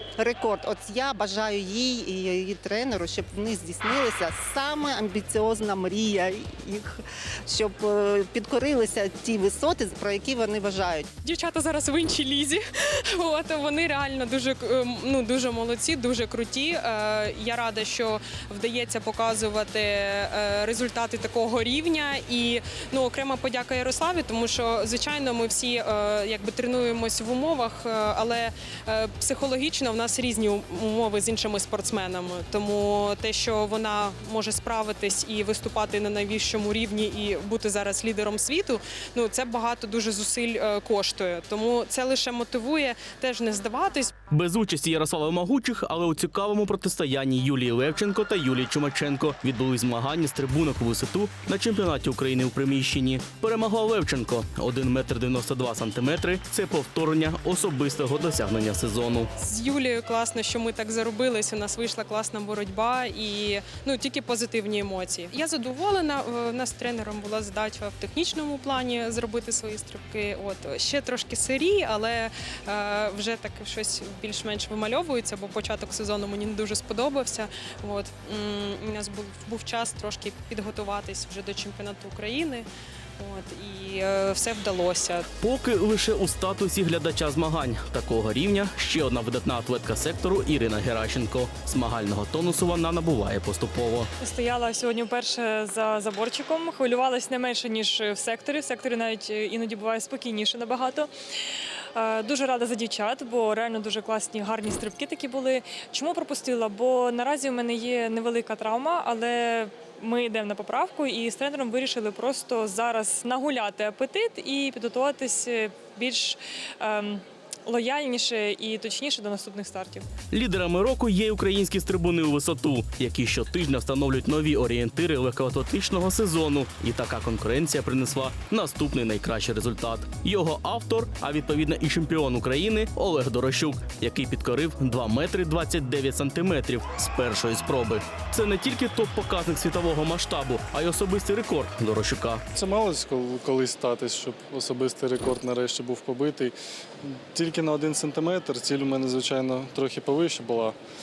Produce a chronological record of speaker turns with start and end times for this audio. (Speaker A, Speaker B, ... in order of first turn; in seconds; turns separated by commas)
Speaker A: 0.2-11.1, Speaker B: 11.2-12.6, Speaker B: 13.1-44.1, Speaker C: 44.3-59.3, Speaker B: 59.4-82.7, Speaker B: 83.2-85.3, Speaker C: 85.4-94.1, Speaker D: 94.2-101.1, Speaker D: 102.0-120.1, Speaker C: 120.3-142.4, Speaker E: 142.6-150.8